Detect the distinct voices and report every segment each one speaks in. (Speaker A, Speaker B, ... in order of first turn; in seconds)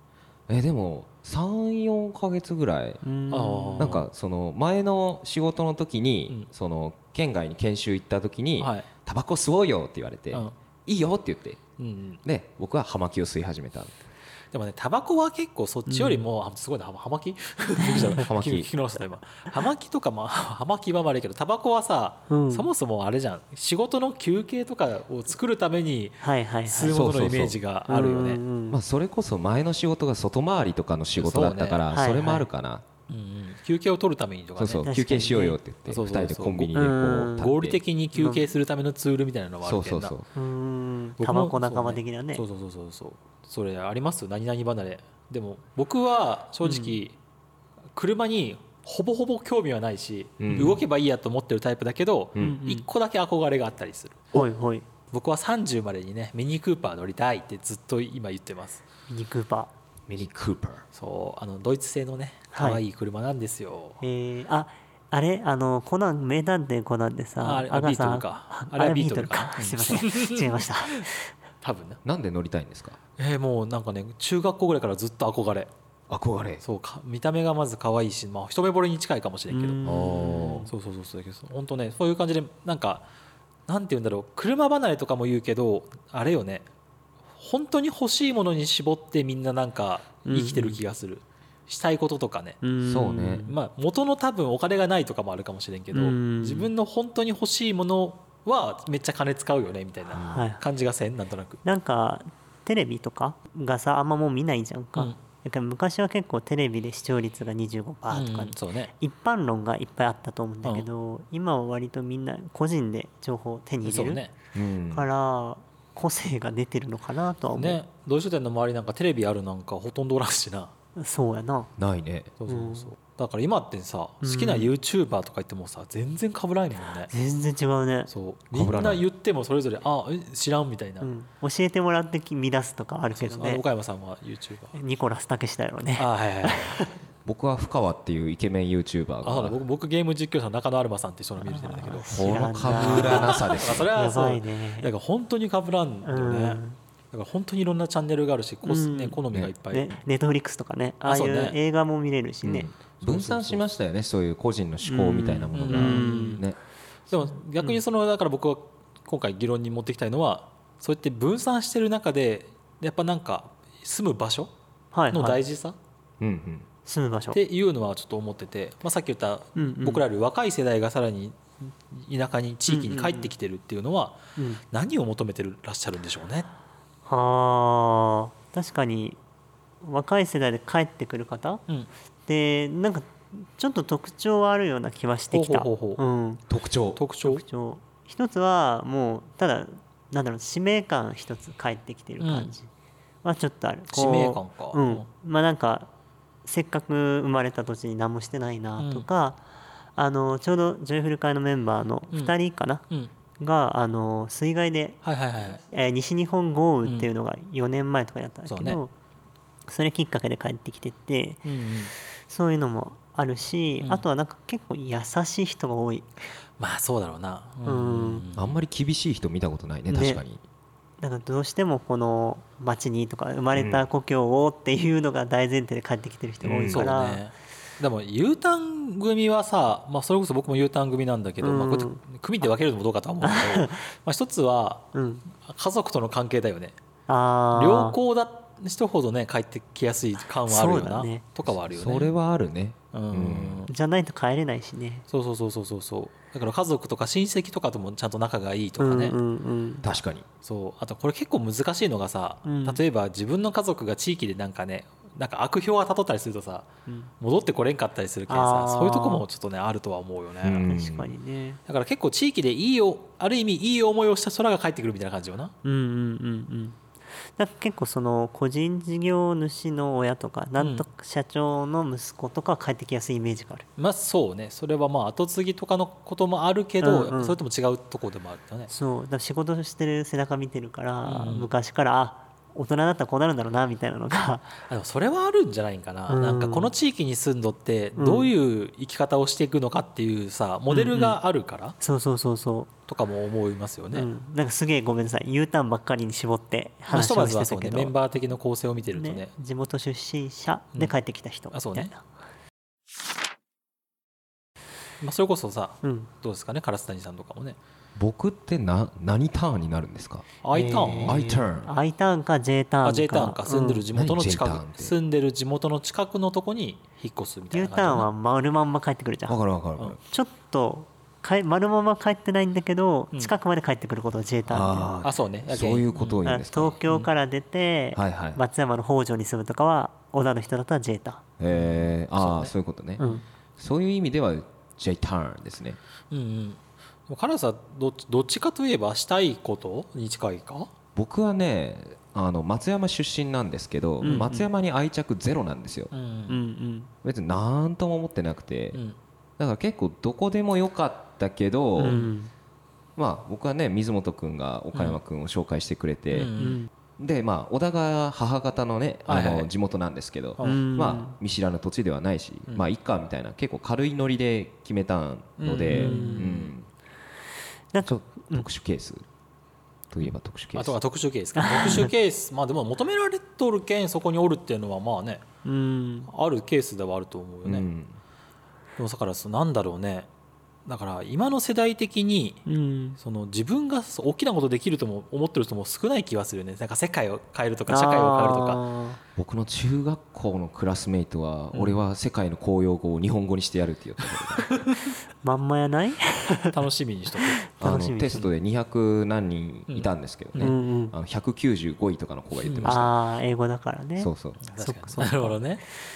Speaker A: 0.5-3.0, 3.8-11.6, 12.2-14.0, 18.1-18.7, 26.9-27.6, 28.7-32.9, 34.6-37.8, 39.6-40.3, 50.4-50.8, 60.1-60.9, 72.0-73.0, 76.1-76.6, 79.8-80.7, 92.8-93.5, 100.1-100.5, 114.5-115.1, 121.8-122.3, 128.5-129.0, 137.2-139.6, 142.1-143.9, 152.4-156.6, 166.2-166.7, 186.5-187.0, 218.4-220.4, 223.5-223.9, 226.4-226.9, 241.5-243.7, 249.8-250.3, 260.4-261.1, 308.0-310.3, 311.1-311.7, 313.9-314.9, 319.3-320.0, 324.5-326.8, 327.9-328.4, 331.4-333.0, 333.6-335.8, 341.0-345.9, 347.0-348.8, 349.4-352.1, 353.0-356.3, 357.0-366.7, 367.8-369.1, 369.9-370.8, 377.4-378.0, 389.2-394.5, 397.6-402.9, 404.0-404.4
Speaker B: 3.0-4.0, 15.9-16.2, 17.8-18.2, 22.3-22.7, 26.2-27.0, 27.9-28.8, 31.9-32.5, 34.9-35.6, 36.8-37.5, 38.1-38.5, 40.4-42.4, 46.6-47.0, 52.4-52.9, 54.3-54.9, 59.1-59.7, 62.5-62.8, 64.0-71.3, 79.5-80.7, 90.3-90.8, 92.6-93.5, 95.9-96.7, 100.2-100.6, 101.7-114.2, 114.9-117.8, 121.0-121.7, 122.5-122.9, 124.2-124.7, 127.1-128.1, 131.0-133.6, 134.8-137.0, 141.4-144.9, 146.1-146.8, 148.7-149.2, 149.7-152.8, 154.8-156.4, 164.9-165.4, 166.9-167.4, 169.6-170.0, 172.7-173.3, 174.4-174.6, 177.1-179.2, 179.8-181.7, 182.3-186.4, 187.2-192.7, 193.2-195.9, 196.4-199.4, 200.0-202.8, 203.4-205.0, 205.7-208.9, 209.7-211.5, 212.3-216.1, 217.7-218.2, 219.9-220.2, 221.0-227.2, 231.4-232.0, 233.2-233.8, 234.9-235.2, 237.1-238.0, 240.5-241.2, 243.7-245.1, 248.8-249.9, 252.4-252.8, 258.3-259.2, 260.6-261.6, 265.6-266.8, 267.4-273.7, 276.8-277.4, 278.7-284.5, 286.1-286.7, 288.0-288.3, 290.7-291.2, 291.8-292.7, 293.9-297.9, 299.0-302.0, 305.8-306.1, 310.5-313.8, 317.5-319.4, 320.0-325.0, 326.2-331.2, 344.0-344.5, 346.3-346.9, 351.8-352.3, 356.4-356.7, 360.4-361.2, 365.6-366.4, 367.7-368.5, 371.4-371.9, 375.4-376.1, 382.5-383.0, 387.7-389.0, 395.2-396.6, 397.3-398.3, 400.4-400.9, 402.6-405.4
Speaker C: 3.3-4.0, 8.6-8.9, 11.8-12.2, 14.5-28.4, 31.2-31.9, 33.1-34.9, 35.9-40.1, 41.2-47.2, 48.0-54.4, 55.1-58.8, 60.9-64.0, 67.4-71.1, 71.6-72.0, 73.2-75.7, 76.6-79.9, 80.7-83.1, 83.7-86.7, 87.4-92.6, 93.5-101.6, 108.1-108.9, 113.8-114.3, 117.5-120.7, 122.4-127.1, 128.1-131.1, 133.1-134.8, 136.0-136.8, 139.2-142.2, 142.7-146.6, 147.1-149.9, 151.0-151.6, 153.1-153.6, 155.6-156.4, 157.1-164.5, 165.1-165.8, 167.3-176.5, 185.3-186.0, 187.0-187.4, 192.2-192.5, 193.9-195.1, 198.8-199.1, 205.0-205.6, 208.5-208.8, 211.4-211.9, 216.6-218.6, 226.7-236.8, 237.5-242.1, 242.9-243.7, 245.1-249.2, 250.4-260.7, 261.7-265.5, 270.6-270.9, 273.8-278.7, 281.1-281.5, 284.7-291.8, 292.9-294.1, 296.9-299.3, 301.5-301.9, 305.0-307.6, 310.4-311.2, 312.8-318.1, 325.0-326.2, 331.5-333.2, 336.1-340.7, 344.0-344.3, 345.9-346.4, 356.1-356.6, 359.1-359.5, 360.4-360.6, 365.4-366.5, 370.6-375.2, 376.1-377.7, 378.8-380.1, 380.7-382.4, 383.0-388.6, 391.5-391.8, 396.5-397.4, 399.7-400.6, 402.4-402.8, 404.4-405.6